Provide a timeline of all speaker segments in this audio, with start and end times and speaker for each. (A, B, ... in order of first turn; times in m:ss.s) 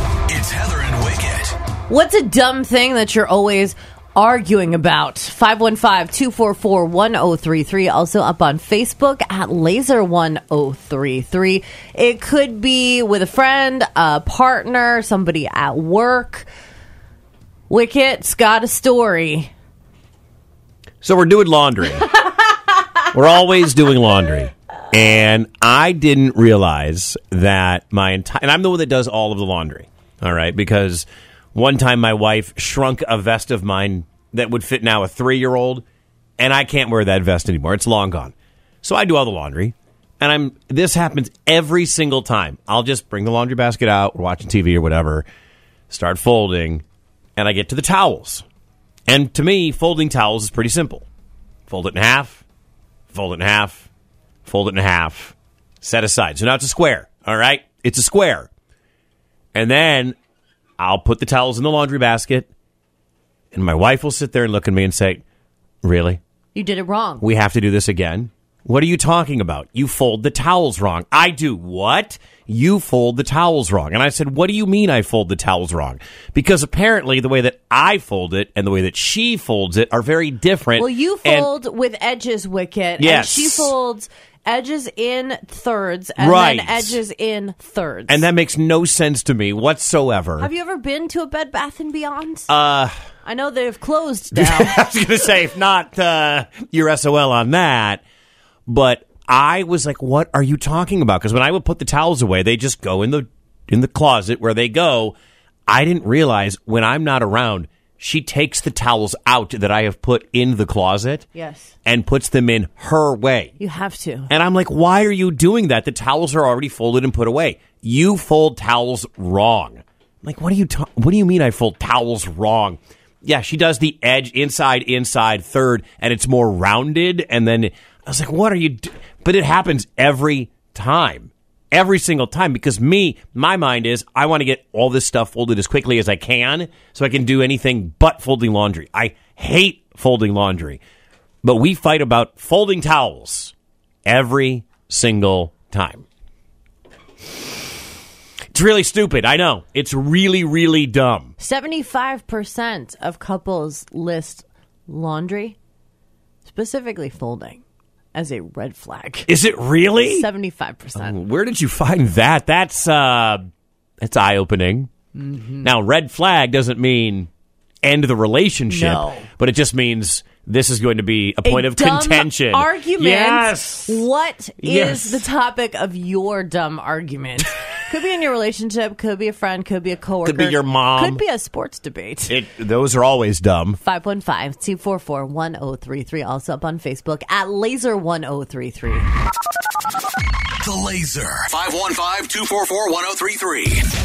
0:00.3-0:01.5 A
0:01.9-0:16.5 B
0:17.7-0:19.5 B
0:21.0-0:22.3 C
0:23.1-0:35.8 C
0:36.4-0:45.2 C
0:45.9-0:46.8 C
0:47.4-0:48.4 C
0:49.1-0:51.0 C
0:51.7-0:52.4 C
0:53.1-0:53.9 C
0:54.4-0:58.5 C
0:59.5-1:00.2 C
1:00.8-1:02.5 C
1:03.5-1:05.2 C
1:05.8-1:06.2 C
1:06.5-1:07.2 B
1:07.2-1:21.5 C
1:20.8-1:28.2 B
1:23.0-1:23.7 C
1:26.2-1:27.0 C
1:28.1-1:30.5 C
1:30.4-1:32.5 B
1:32.5-1:32.9 C
1:33.2-1:34.7 B
1:34.3-1:38.0 C
1:38.7-1:45.2 C
1:45.7-1:51.2 C
1:51.3-1:51.7 B
1:51.8-1:53.5 C
1:53.6-1:54.3 B
1:54.3-2:20.8 C
2:21.4-2:23.5 C
2:24.0-2:26.0 C
2:28.5-2:31.3 C
2:31.4-2:35.6 B
2:36.4-2:37.6 B
2:38.1-2:39.3 B
2:39.3-2:40.3 C
2:40.0-2:41.2 B
2:41.0-2:43.5 C
2:44.0-2:44.9 C
2:45.2-2:45.6 B
2:45.6-2:47.3 C
2:47.8-2:54.0 C
2:48.7-2:49.3 B
2:51.4-3:02.4 B
2:54.6-2:55.2 C
3:00.2-3:01.2 C
3:02.3-3:03.8 C
3:03.8-3:09.1 B
3:10.6-3:13.8 A